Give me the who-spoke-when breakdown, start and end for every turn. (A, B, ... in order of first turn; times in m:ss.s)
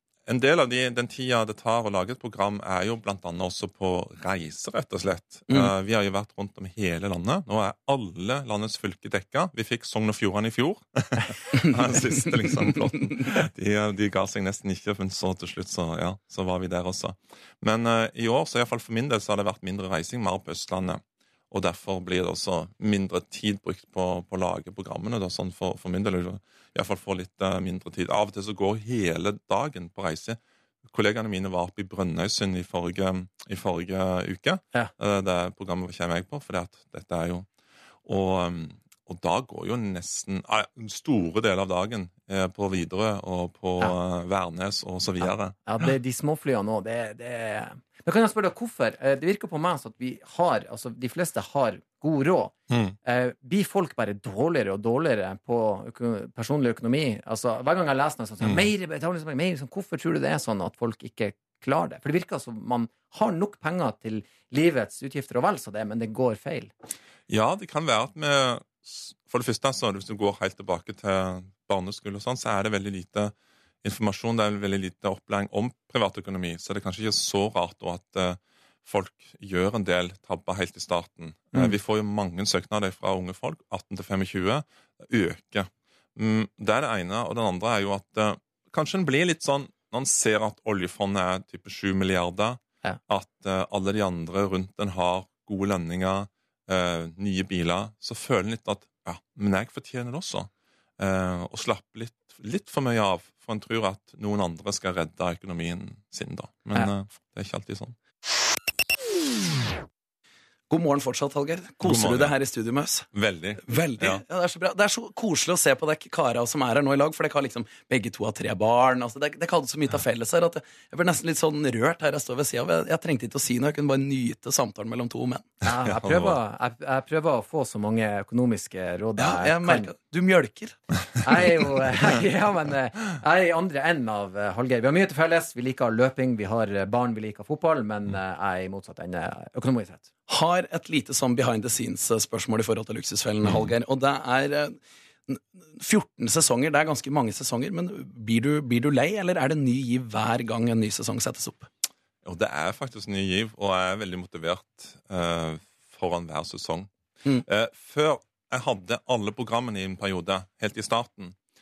0:00.2-0:37.5 A
0:11.9-0:12.8 B
0:38.0-0:45.8 A
0:45.2-0:52.5 C
0:52.7-0:53.0 A
0:53.0-1:06.7 C
1:07.3-1:48.0 A
1:50.7-1:53.1 B
1:51.8-1:52.4 A
1:53.1-1:54.2 A
1:53.6-2:05.5 B
2:05.6-2:09.9 C
2:05.8-2:06.4 A
2:09.2-2:10.8 B
2:11.2-2:20.1 C
2:20.3-2:24.8 B
2:25.3-2:31.7 B
2:32.2-2:41.4 A